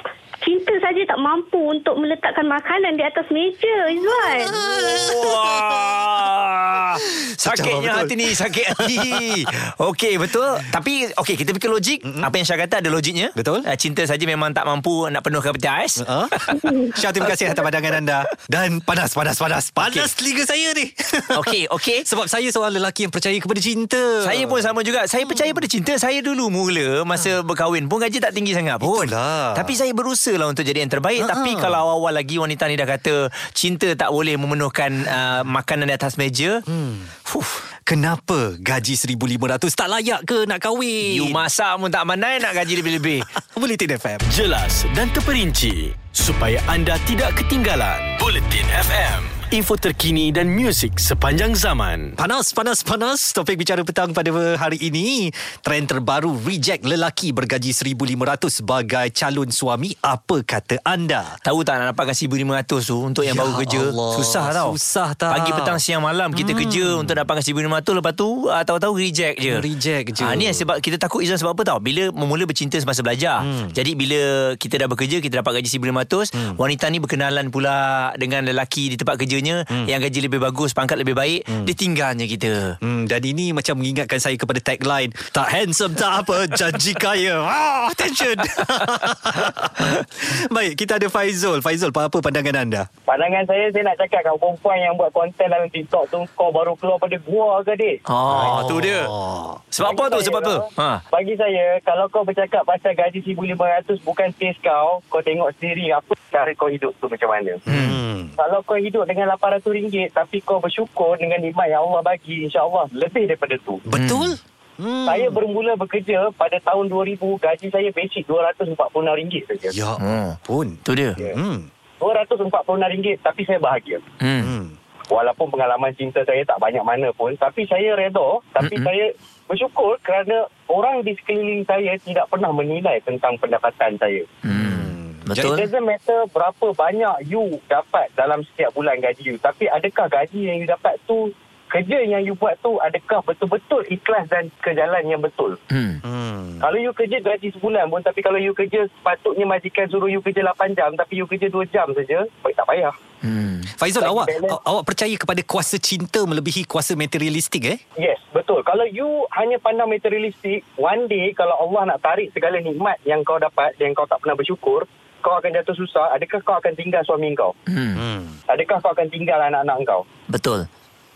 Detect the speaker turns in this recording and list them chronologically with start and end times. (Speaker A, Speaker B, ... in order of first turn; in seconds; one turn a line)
Speaker A: 0.4-5.2
Speaker B: 4.3-6.1
Speaker C: 4.9-17.7
Speaker B: 7.4-9.3
Speaker B: 12.0-12.3
Speaker B: 13.3-13.7
Speaker B: 16.0-24.7
Speaker C: 19.8-20.1
Speaker C: 21.3-22.1
Speaker C: 24.2-36.6
Speaker B: 25.2-25.6
Speaker B: 28.8-29.8
Speaker B: 31.2-31.8
Speaker B: 36.7-37.1
Speaker C: 37.3-37.6
Speaker B: 37.9-41.4
Speaker C: 41.0-43.3
Speaker B: 43.2-44.3
Speaker D: 44.3-52.1
Speaker B: 52.2-61.4
Speaker C: 61.4-64.8
Speaker B: 63.2-65.8
Speaker C: 65.3-69.7
Speaker B: 66.3-67.2
Speaker B: 69.5-70.7
Speaker C: 70.2-82.8
Speaker B: 73.4-73.7
Speaker B: 82.8-92.9
Speaker E: 93.1-98.0
Speaker C: 98.1-99.2
Speaker B: 98.3-99.6
Speaker C: 99.7-101.0
Speaker E: 99.8-107.6
Speaker B: 107.7-108.3
Speaker C: 107.7-108.0
Speaker E: 108.4-113.8
Speaker B: 113.9-115.4
Speaker C: 114.0-114.3
Speaker E: 115.0-119.8
Speaker B: 119.7-121.7
Speaker C: 120.0-121.2
Speaker E: 122.0-124.0
Speaker C: 124.2-124.5
Speaker B: 124.4-124.7
Speaker E: 125.1-134.2
Speaker C: 128.6-128.9
Speaker C: 134.4-135.7
Speaker B: 134.5-135.5
Speaker E: 135.4-145.6
Speaker C: 145.7-146.0
Speaker B: 146.0-146.7
Speaker E: 146.6-152.9
Speaker C: 153.2-153.7
Speaker B: 153.8-157.8
Speaker E: 154.0-154.6
Speaker E: 158.0-167.5
Speaker C: 167.7-168.0
Speaker B: 167.9-168.3
Speaker E: 168.5-170.0
Speaker C: 170.3-170.7